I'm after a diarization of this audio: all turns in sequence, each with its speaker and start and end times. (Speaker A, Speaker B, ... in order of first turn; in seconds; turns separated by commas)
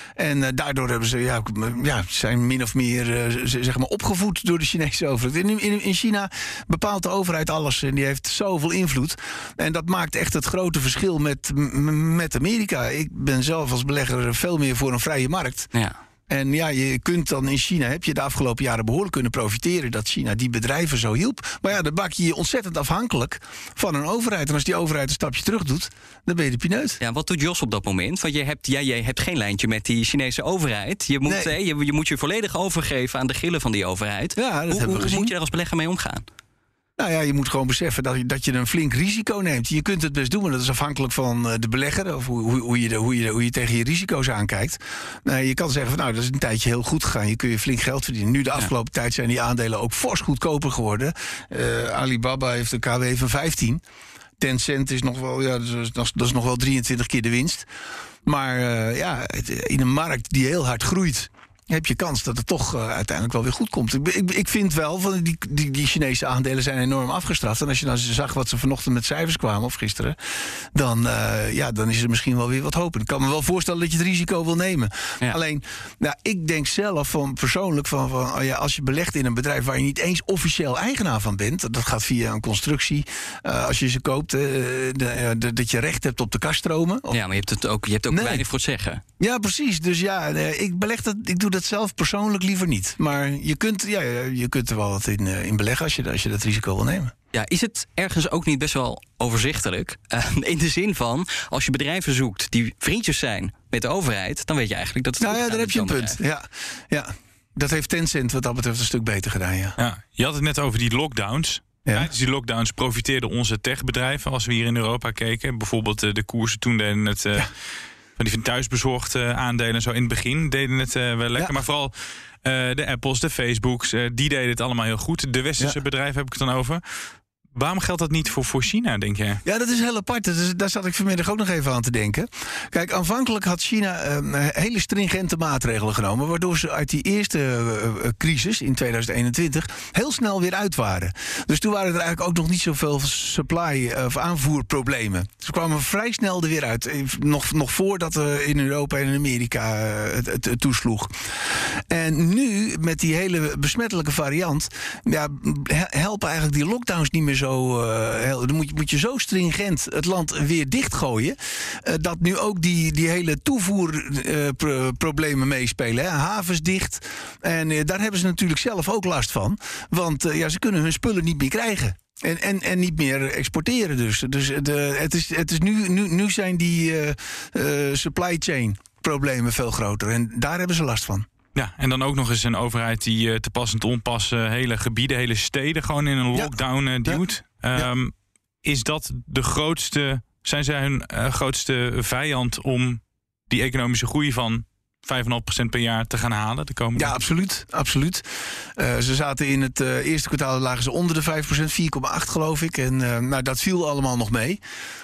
Speaker A: 0.2-15.7, Speaker A: 16.3-27.0, Speaker B: 27.0-36.2, Speaker A: 31.3-31.5, Speaker A: 34.4-35.3, Speaker A: 37.0-53.8, Speaker A: 54.4-57.7, Speaker A: 58.2-70.2, Speaker A: 70.7-87.2, Speaker B: 87.1-89.0, Speaker A: 88.1-88.4, Speaker A: 89.2-97.1, Speaker B: 97.3-106.2, Speaker A: 105.2-109.8, Speaker C: 109.8-117.5, Speaker C: 118.2-126.8, Speaker C: 127.5-129.4, Speaker A: 129.4-181.3, Speaker C: 181.6-188.1, Speaker C: 188.6-197.1, Speaker A: 196.9-204.6